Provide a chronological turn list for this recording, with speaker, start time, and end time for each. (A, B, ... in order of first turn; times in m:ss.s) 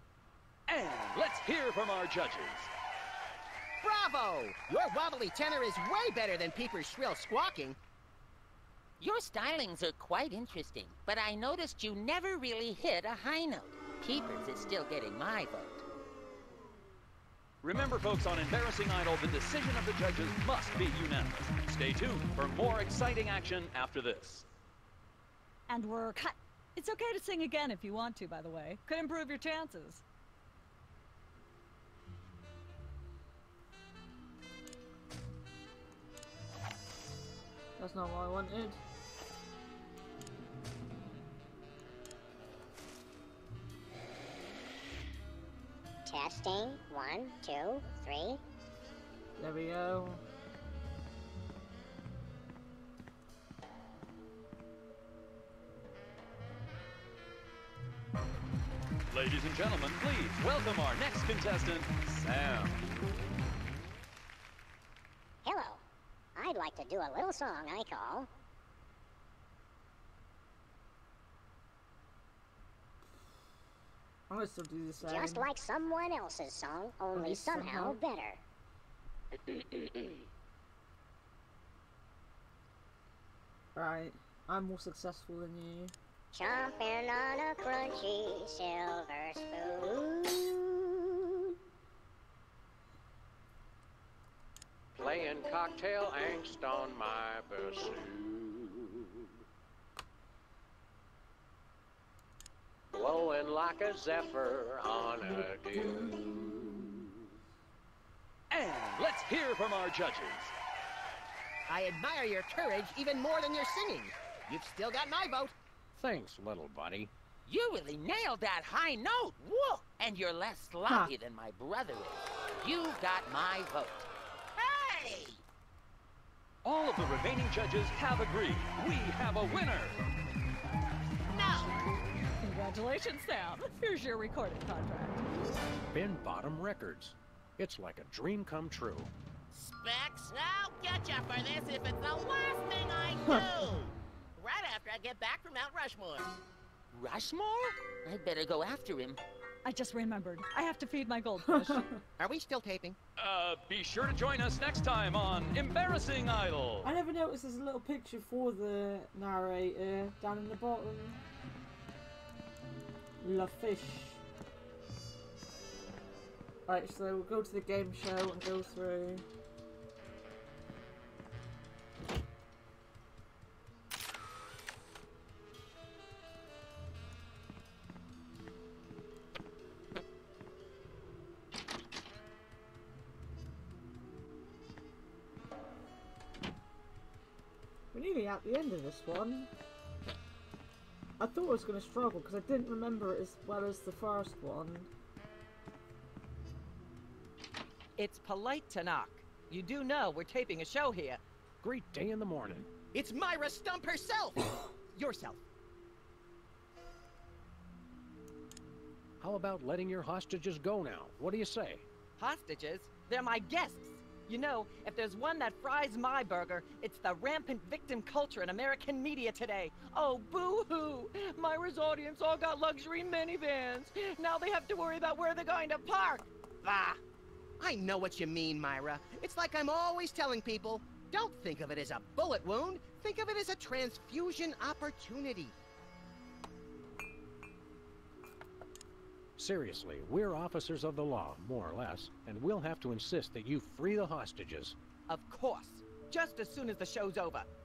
0:00.7-0:02.7 A
0:03.8-0:07.8 B
0:09.0-0:15.8 C
0:17.6-0:24.5 A
0:25.7-0:30.0 D
0:37.8-0:38.8 E
0:46.0-0:48.4 F
0:49.4-0:50.2 E
0:59.1-1:02.8 A
1:05.4-1:05.8 F
1:06.4-1:08.3 F
1:14.3-1:15.5 E
1:15.0-1:18.4 F
1:17.1-1:18.0 E
1:23.8-1:25.9 E
1:26.3-1:30.9 F
1:34.9-1:39.2 G
1:42.9-1:47.0 G
1:48.5-1:50.5 A
1:51.7-1:55.5 B
1:56.0-1:57.1 G
1:57.5-2:04.1 C
2:00.9-2:01.1 E
2:04.6-2:05.4 H
2:06.6-2:10.0 A
2:11.3-2:11.8 H
2:12.4-2:15.2 D
2:15.9-2:19.1 G
2:19.5-2:26.3 H
2:26.9-2:29.2 C
2:29.6-2:31.9 D
2:31.5-2:31.9 E
2:32.2-2:33.0 B
2:33.2-2:36.9 A
2:36.8-2:41.2 E
2:43.2-2:44.2 E
2:46.7-2:49.2 E
3:07.9-3:09.5 E
3:11.2-3:14.9 E
3:18.0-3:21.2 I
3:21.6-3:22.7 G
3:22.9-3:25.4 B
3:29.2-3:31.9 G
3:32.2-3:46.3 I
3:46.6-3:47.0 B
3:47.6-3:55.6 B
3:59.4-4:04.8 G
4:05.1-4:07.5 I